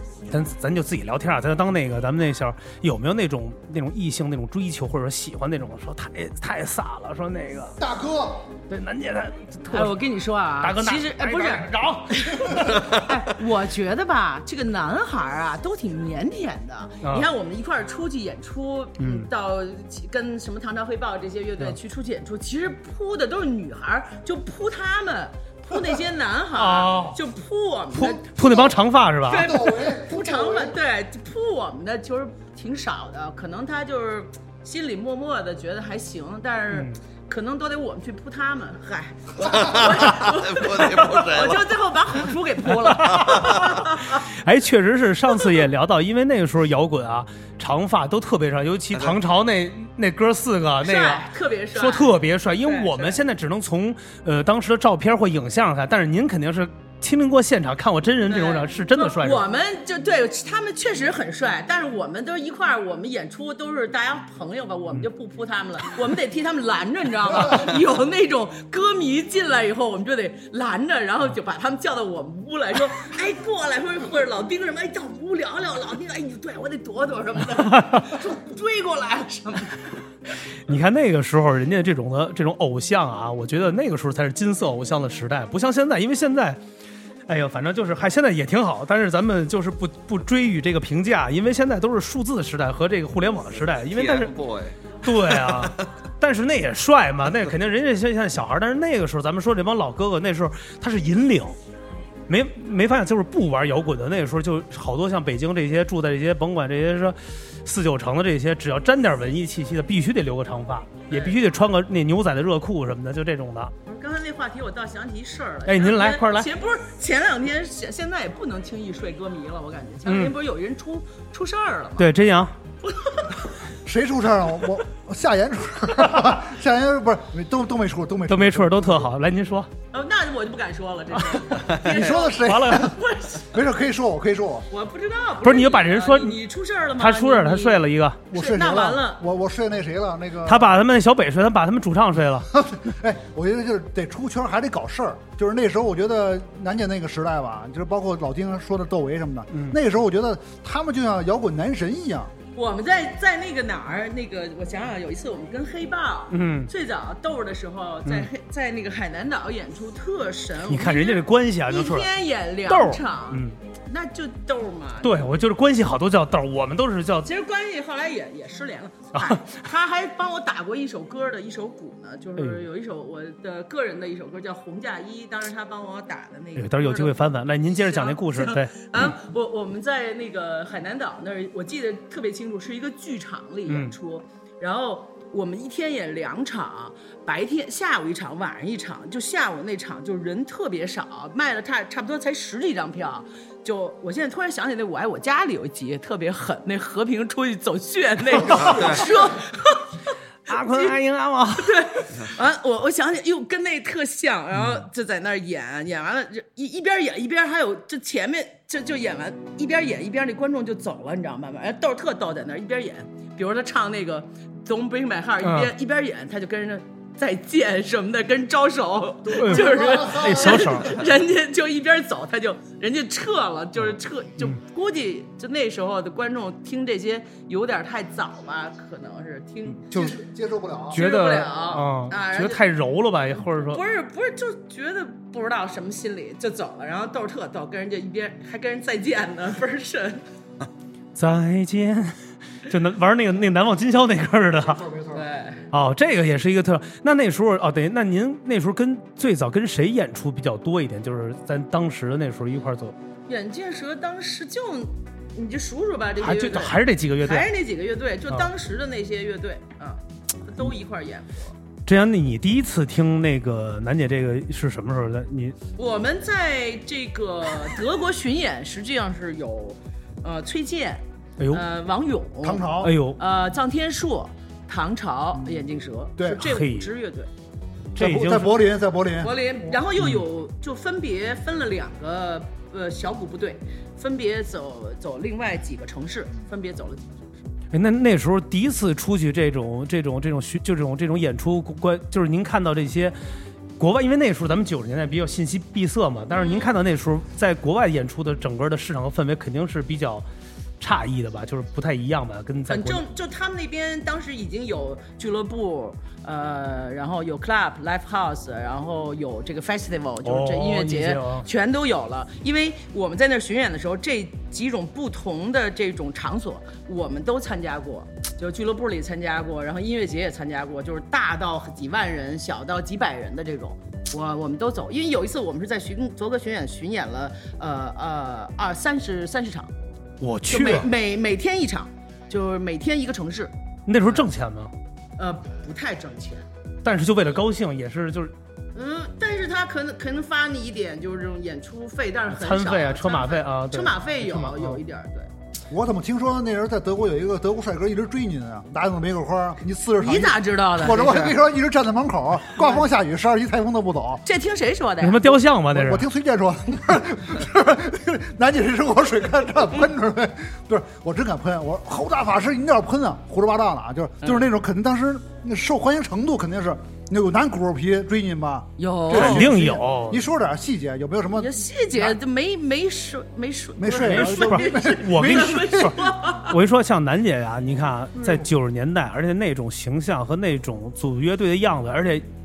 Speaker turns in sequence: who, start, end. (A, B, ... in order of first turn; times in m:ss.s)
0:00.3-0:07.8 A
0:07.8-0:08.5 B
0:08.7-0:10.0 A
0:09.7-0:44.3 C
0:10.6-0:12.8 A
0:12.7-0:13.0 D
0:17.0-0:17.3 A
0:19.0-0:19.3 A
0:26.6-0:27.2 A
0:27.9-0:29.5 A
0:29.3-0:30.7 B
0:36.7-0:37.0 A
0:39.4-0:41.7 D
0:42.7-0:59.4 A
0:43.2-0:43.6 D
0:50.8-0:53.2 C
0:58.3-1:19.9 C
1:17.7-1:18.1 A
1:20.7-1:26.6 A
1:27.3-1:34.3 A
1:33.9-1:35.8 D
1:35.0-1:41.6 A
1:42.3-1:53.7 A
1:51.1-1:51.4 C
1:53.8-2:02.1 C
1:55.6-1:56.5 A
2:00.1-2:00.4 A
2:02.0-2:02.5 A
2:02.8-2:03.3 C
2:03.8-2:09.1 B
2:08.3-2:09.7 A
2:09.9-2:13.5 C
2:11.3-2:11.6 A
2:11.7-2:11.9 D
2:11.8-2:13.0 B
2:12.4-2:12.9 A
2:13.5-2:14.6 B
2:14.7-2:19.2 C
2:15.4-2:16.4 A
2:17.0-2:18.2 A
2:18.3-2:20.7 B
2:20.4-2:22.5 A
2:22.5-2:32.3 B
2:32.6-2:45.2 C
2:36.3-2:36.7 A
2:40.7-2:42.1 A
2:42.7-2:43.6 A
2:45.0-2:47.3 A
2:47.2-3:19.9 C
2:49.2-2:49.4 A
2:52.4-2:52.6 A
2:56.6-2:59.1 A
3:03.7-3:03.9 A
3:18.5-3:19.1 D
3:18.7-3:19.1 A
3:20.5-3:21.9 A
3:20.5-3:20.9 C
3:21.6-3:49.8 C
3:35.4-3:35.7 A
3:39.3-3:41.0 A
3:39.4-3:40.7 B
3:49.9-3:50.2 A
3:49.9-3:51.0 B
3:50.9-3:53.8 A
3:50.9-3:52.6 C
3:53.4-4:00.2 C
4:01.1-4:04.8 A
4:04.7-4:05.2 B
4:05.1-4:05.6 C
4:05.7-4:13.0 A
4:13.3-4:21.5 C
4:16.2-4:17.5 A
4:21.9-4:25.6 A
4:25.8-4:37.3 C
4:31.4-4:31.6 A
4:32.4-4:33.0 B
4:32.8-4:33.2 A
4:36.2-4:36.4 B
4:36.4-4:36.9 A
4:38.0-4:38.6 A
4:38.0-4:39.4 B
4:39.2-4:47.4 C
4:47.7-4:53.1 A
4:53.8-5:00.2 A
4:56.3-4:56.7 C
5:00.8-5:03.0 A
5:02.7-5:29.7 C
5:10.2-5:11.4 A
5:30.2-5:30.9 A
5:30.5-5:33.5 C
5:33.9-5:34.7 A
5:35.2-5:36.4 C
5:36.8-5:38.3 A
5:38.7-5:45.3 C
5:42.3-5:44.8 A
5:45.7-5:54.2 B
5:50.0-5:51.4 C
5:52.6-5:52.9 C
5:54.2-5:55.4 C
5:55.0-5:56.1 A
5:55.7-6:12.2 B
6:08.8-6:09.5 C
6:09.1-6:10.2 A
6:11.3-6:16.5 C
6:13.8-6:16.0 B
6:14.0-6:22.2 A